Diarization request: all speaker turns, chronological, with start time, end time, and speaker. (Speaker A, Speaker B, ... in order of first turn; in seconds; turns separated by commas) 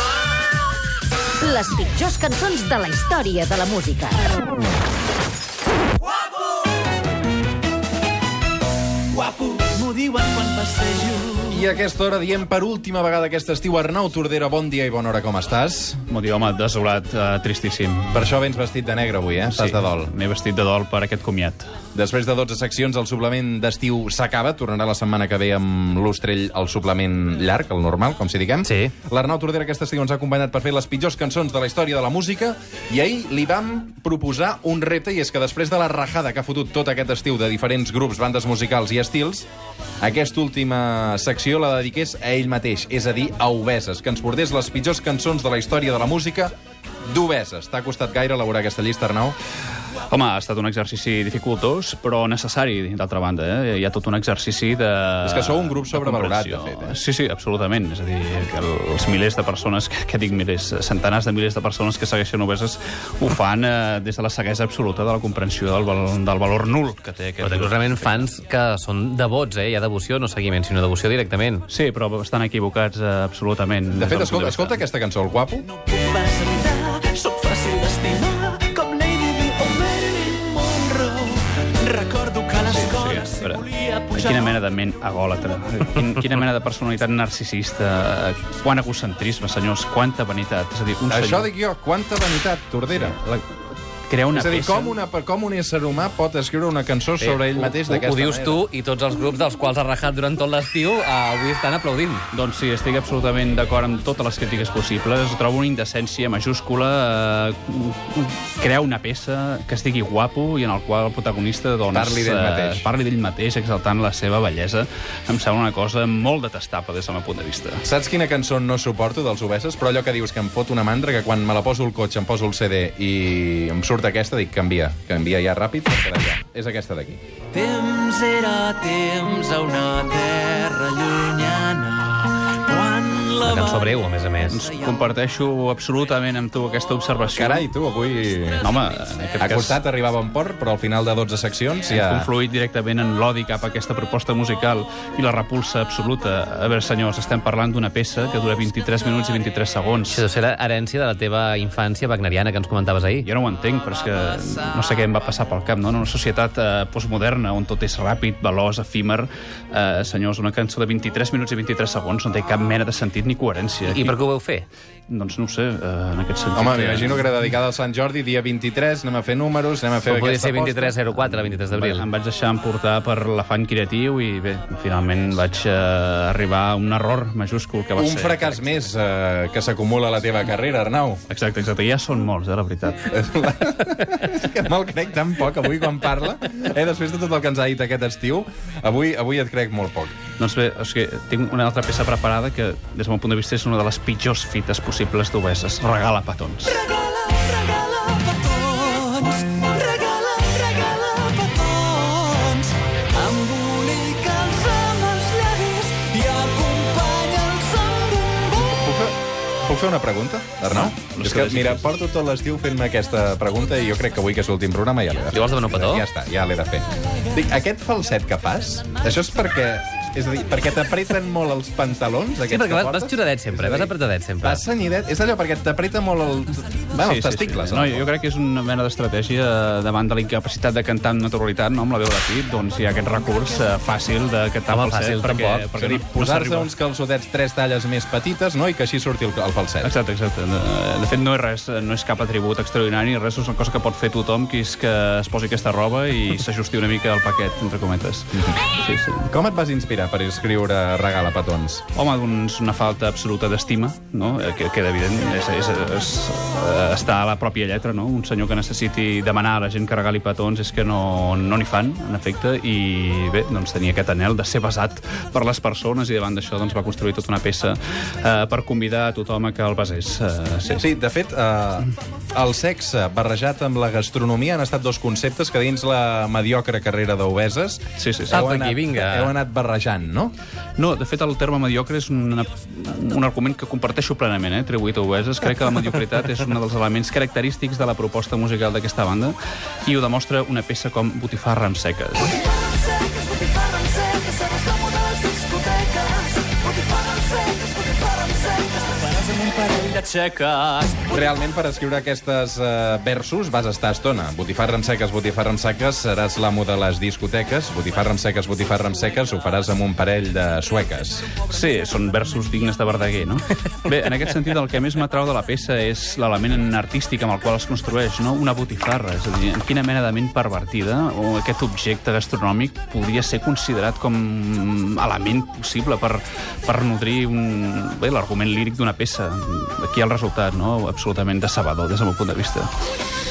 Speaker A: 1.4-4.3, Speaker B: 9.5-11.5, Speaker C: 11.5-16.0, Speaker D: 16.1-18.3, Speaker C: 18.1-20.1, Speaker D: 19.5-21.7, Speaker C: 21.9-39.5, Speaker E: 28.6-28.9, Speaker C: 40.0-46.5, Speaker C: 47.1-49.4, Speaker D: 50.1-68.2, Speaker C: 55.2-57.0, Speaker E: 67.4-71.6, Speaker D: 71.7-74.8, Speaker C: 73.9-75.7, Speaker B: 75.7-84.5, Speaker D: 82.6-91.5, Speaker C: 91.1-93.2, Speaker D: 92.9-93.6, Speaker D: 94.1-95.0, Speaker C: 94.3-98.7, Speaker E: 97.2-102.2, Speaker D: 102.3-117.9, Speaker C: 111.9-112.9, Speaker C: 117.8-127.2, Speaker B: 127.5-134.0, Speaker E: 133.4-134.7, Speaker D: 134.5-137.7, Speaker C: 137.3-138.6, Speaker D: 138.6-139.8, Speaker C: 139.4-142.3, Speaker D: 141.9-150.2, Speaker E: 150.1-153.3, Speaker D: 153.2-164.2, Speaker E: 163.8-164.7, Speaker D: 165.1-167.3, Speaker C: 166.5-171.0, Speaker E: 170.0-172.1, Speaker D: 171.4-178.9, Speaker C: 177.9-181.2, Speaker D: 181.3-183.1, Speaker C: 183.1-190.1, Speaker D: 190.4-196.8, Speaker B: 196.7-208.8, Speaker C: 208.6-228.1, Speaker D: 211.0-211.9, Speaker E: 215.3-216.0, Speaker E: 222.5-224.6, Speaker D: 226.9-236.7, Speaker E: 234.7-235.7, Speaker C: 235.7-239.9, Speaker D: 239.8-249.3, Speaker C: 249.3-251.8, Speaker D: 251.9-270.9, Speaker C: 270.8-280.3, Speaker D: 277.9-278.4, Speaker E: 278.3-279.3, Speaker D: 280.8-292.4, Speaker B: 292.3-301.2, Speaker C: 301.1-311.3, Speaker D: 311.4-332.7